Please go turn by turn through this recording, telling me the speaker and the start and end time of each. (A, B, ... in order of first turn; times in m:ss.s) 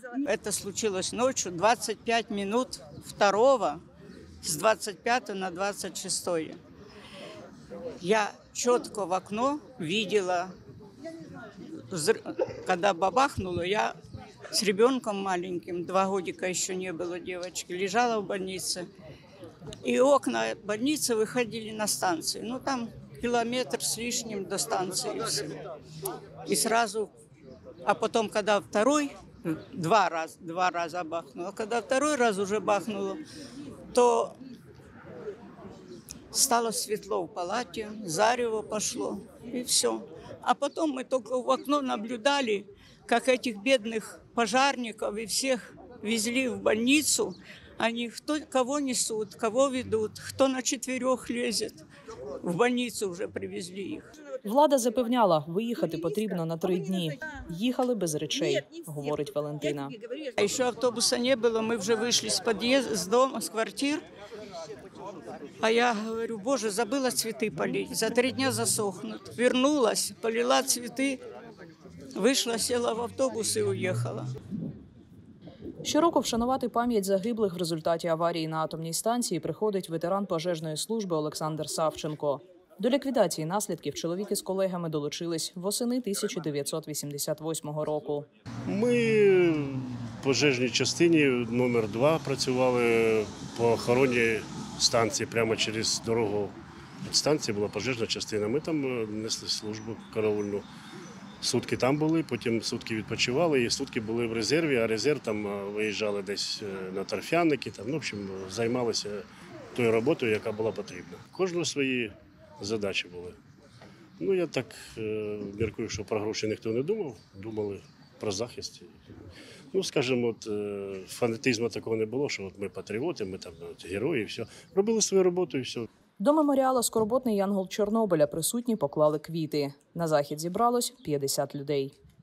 0:00.2-0:03.8 A
0:04.4-0:06.6 A
0:08.0-0:10.5 A
0:11.6-0:14.0 A
0:14.5-0:18.9 A
0:19.8-0:25.6 A
0:26.4-0:27.1 A
0:27.8-0:33.2 A
0:33.9-0:34.4 A
0:36.3-0:51.8 A
0:52.4-0:54.1 A
0:54.4-1:00.0 B
1:00.4-1:04.0 A
1:05.6-1:11.2 A
1:12.1-1:14.3 A
1:15.8-1:28.3 B
1:28.7-1:36.5 C
1:37.1-1:40.6 C
1:41.4-1:53.4 C
1:54.2-1:59.0 C
1:59.7-2:05.9 C
2:06.2-2:11.9 B